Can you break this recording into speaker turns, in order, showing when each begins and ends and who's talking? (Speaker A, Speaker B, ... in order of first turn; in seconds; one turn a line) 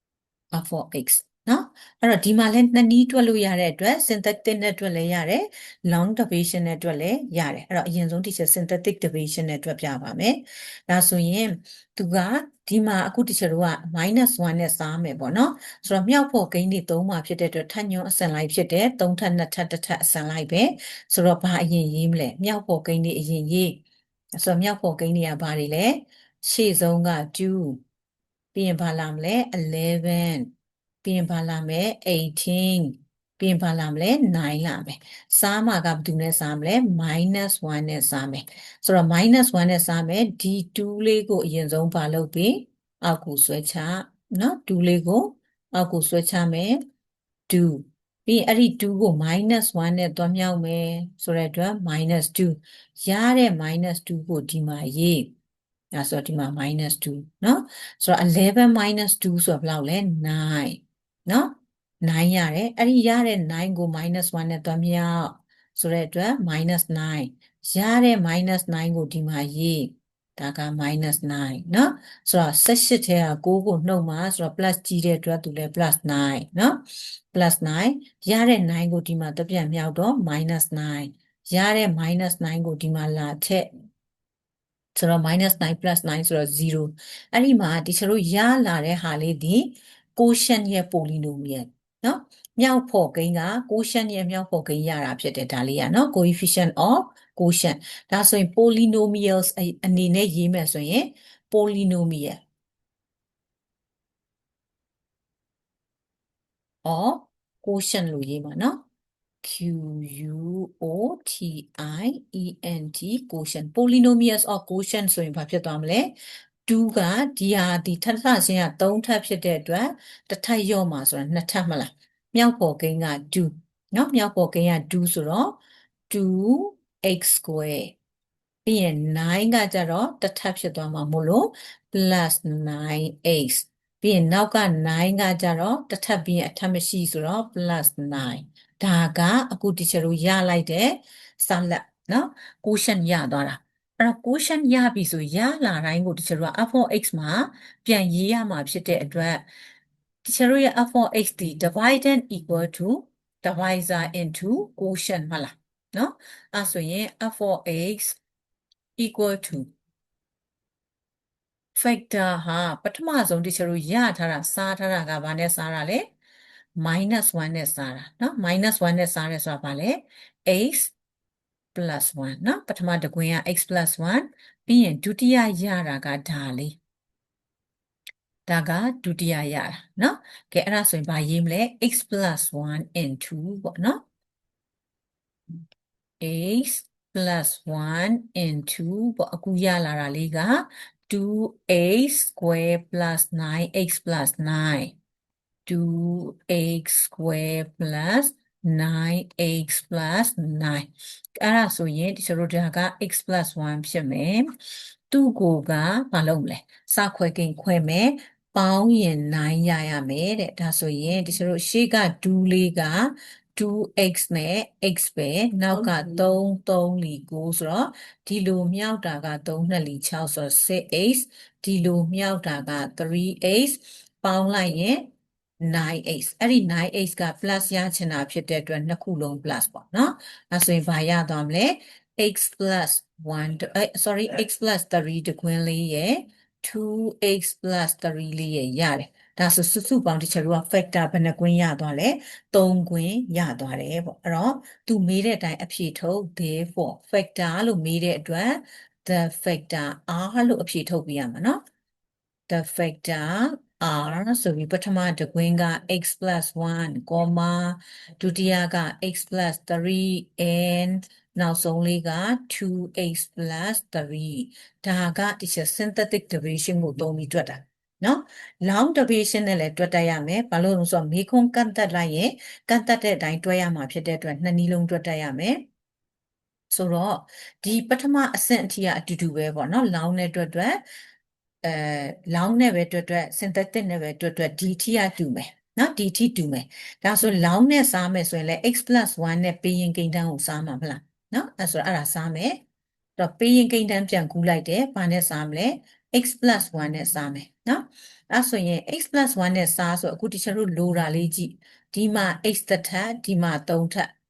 Speaker A: 0.5-23.8
Speaker A: 24.4-27.8
Speaker A: 28.5-30.5
Speaker A: 31.0-46.8
Speaker A: 47.5-55.3
Speaker A: 55.9-83.7
Speaker A: 84.9-102.4
Speaker A: 106.8-108.8
Speaker A: 109.4-116.1
Speaker A: 116.7-125.6
Speaker A: 126.1-128.0
Speaker A: 128.6-149.4
Speaker A: 150.2-158.2
Speaker A: 159.0-159.7
Speaker A: 161.7-166.1
Speaker A: 166.8-170.9
Speaker A: 171.7-176.8
Speaker A: 178.5-184.0
Speaker A: 186.2-194.9
Speaker A: 195.7-200.9
Speaker A: 201.4-204.5
Speaker A: 205.1-225.1
Speaker A: 225.6-251.6
Speaker A: 252.5-275.6
Speaker A: 276.7-280.8
Speaker A: 281.6-292.6
Speaker A: 293.2-304.1